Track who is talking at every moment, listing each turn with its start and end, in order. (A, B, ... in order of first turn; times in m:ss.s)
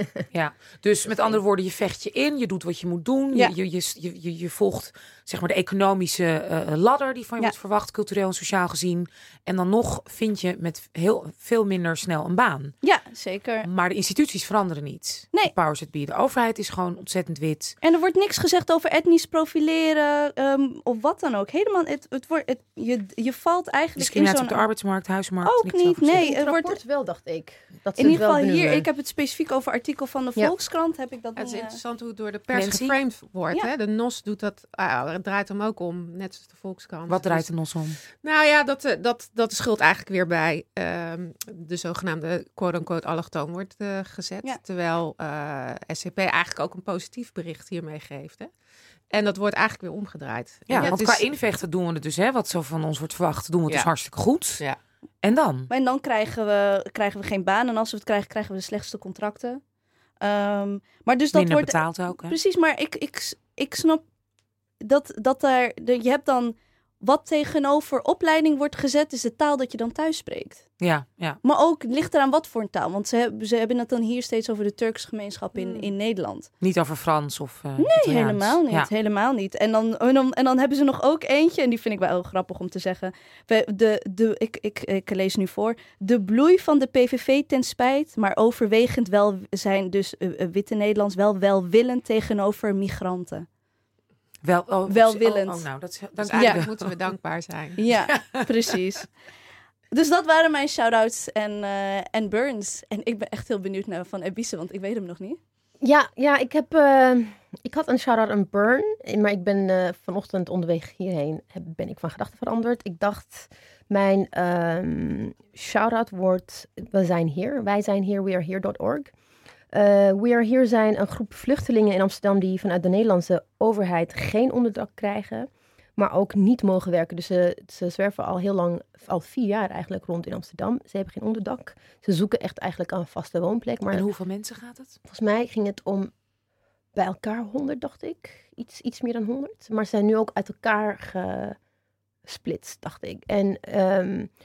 0:00.3-0:12.7 A
0:12.8-0:13.7 B
0:13.6-0:17.8 A
0:17.8-0:24.6 B
0:24.0-0:26.2 A
0:25.4-0:26.8 B
0:26.2-0:28.9 C
0:28.0-0:31.8 B
0:31.4-0:37.5 D
0:32.5-0:33.0 A
0:37.1-0:38.0 A
0:38.2-0:48.5 D
0:49.1-0:51.3 D
0:50.7-0:54.6 A
0:55.2-0:55.7 A
0:55.7-0:59.6 B
1:00.2-1:04.0 B
1:01.3-1:02.4 A
1:04.8-1:10.7 B
1:10.8-1:11.4 A
1:11.4-1:16.5 B
1:16.6-1:18.9 A
1:17.8-1:33.5 B
1:34.4-1:36.9 A
1:34.9-1:35.6 B
1:36.2-1:37.8 D
1:36.4-1:36.7 B
1:37.8-1:39.1 B
1:38.1-1:38.5 A
1:39.9-1:45.4 B
1:45.8-1:59.1 C
1:59.7-2:14.1 C
2:13.9-2:15.0 A
2:15.1-2:16.1 C
2:17.0-2:21.6 C
2:22.2-2:24.3 C